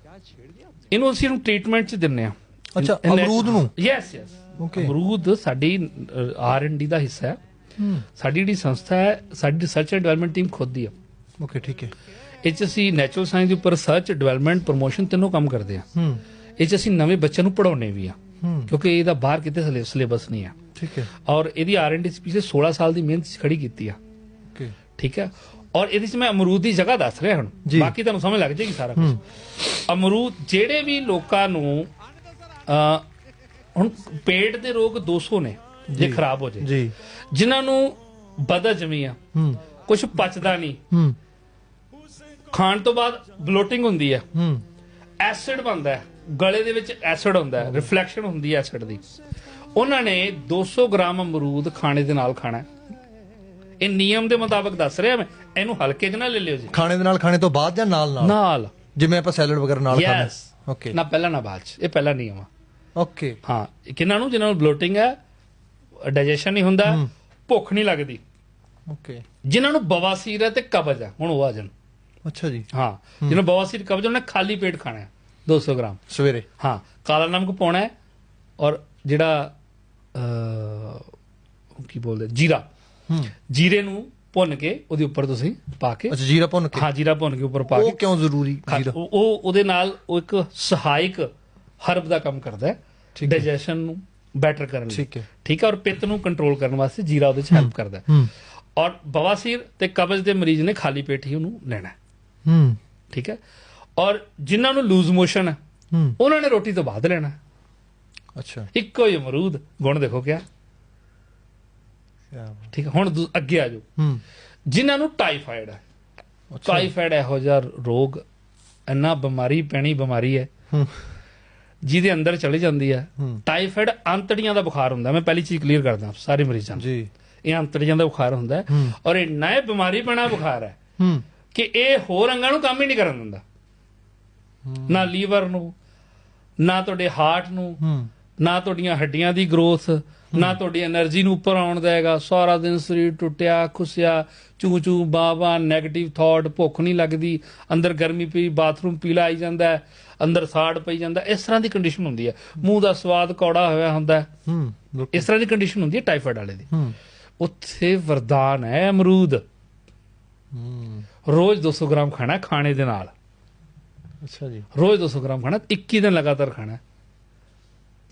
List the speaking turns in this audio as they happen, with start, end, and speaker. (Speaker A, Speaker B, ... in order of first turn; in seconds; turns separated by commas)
Speaker A: 0.9-7.4, Speaker B: 2.8-3.7, Speaker B: 4.6-5.0, Speaker B: 7.8-8.1, Speaker A: 8.2-10.9, Speaker B: 11.4-11.9, Speaker A: 12.4-15.8, Speaker B: 15.9-16.2, Speaker A: 16.6-18.2, Speaker B: 18.4-18.7, Speaker A: 18.7-20.6, Speaker B: 20.8-21.1, Speaker A: 21.2-24.0, Speaker A: 25.0-31.9, Speaker B: 27.7-27.9, Speaker A: 32.7-33.0, Speaker A: 33.8-36.7, Speaker B: 35.9-36.9, Speaker A: 37.3-39.2, Speaker B: 39.3-39.6, Speaker A: 39.9-40.8, Speaker B: 40.9-41.2, Speaker A: 42.5-44.2, Speaker B: 44.3-44.6, Speaker A: 45.2-49.0, Speaker B: 47.6-47.9, Speaker A: 49.8-52.7, Speaker A: 53.8-56.8, Speaker B: 56.7-58.4, Speaker A: 58.2-58.8, Speaker B: 59.0-61.0, Speaker A: 59.9-62.5, Speaker B: 63.0-63.4, Speaker A: 63.5-65.1, Speaker A: 66.0-68.2, Speaker B: 68.9-69.2, Speaker A: 69.5-71.7, Speaker B: 72.2-72.7, Speaker A: 72.7-76.0, Speaker B: 76.1-76.5, Speaker A: 76.6-77.9, Speaker A: 78.6-79.5, Speaker A: 80.1-81.1, Speaker A: 81.8-82.7, Speaker A: 83.5-86.2, Speaker B: 86.1-86.9, Speaker A: 86.7-88.0, Speaker B: 87.7-89.0, Speaker A: 88.7-91.3, Speaker A: 91.8-102.0, Speaker B: 93.2-93.5, Speaker B: 94.9-95.3, Speaker B: 97.5-98.3, Speaker B: 102.5-102.8, Speaker A: 103.1-103.4, Speaker A: 104.0-105.6, Speaker B: 105.9-106.2, Speaker A: 106.2-107.3, Speaker B: 108.4-108.7, Speaker A: 108.7-110.4, Speaker B: 112.3-112.7, Speaker A: 112.7-113.8, Speaker B: 114.0-114.2, Speaker A: 114.7-115.8, Speaker B: 116.5-116.9, Speaker A: 116.6-118.2, Speaker A: 118.9-120.5, Speaker B: 120.7-121.0, Speaker A: 121.8-126.9, Speaker B: 126.8-127.1, Speaker A: 127.5-130.8, Speaker B: 131.0-131.2, Speaker A: 131.5-133.4, Speaker B: 134.7-135.1, Speaker A: 134.8-135.7, Speaker A: 136.6-137.8, Speaker B: 137.8-138.1, Speaker A: 138.4-154.3, Speaker B: 154.5-155.3, Speaker A: 155.1-156.7, Speaker B: 156.7-157.0, Speaker A: 157.4-159.4, Speaker B: 160.5-161.1, Speaker A: 161.2-163.1, Speaker B: 164.2-164.7, Speaker A: 164.7-166.8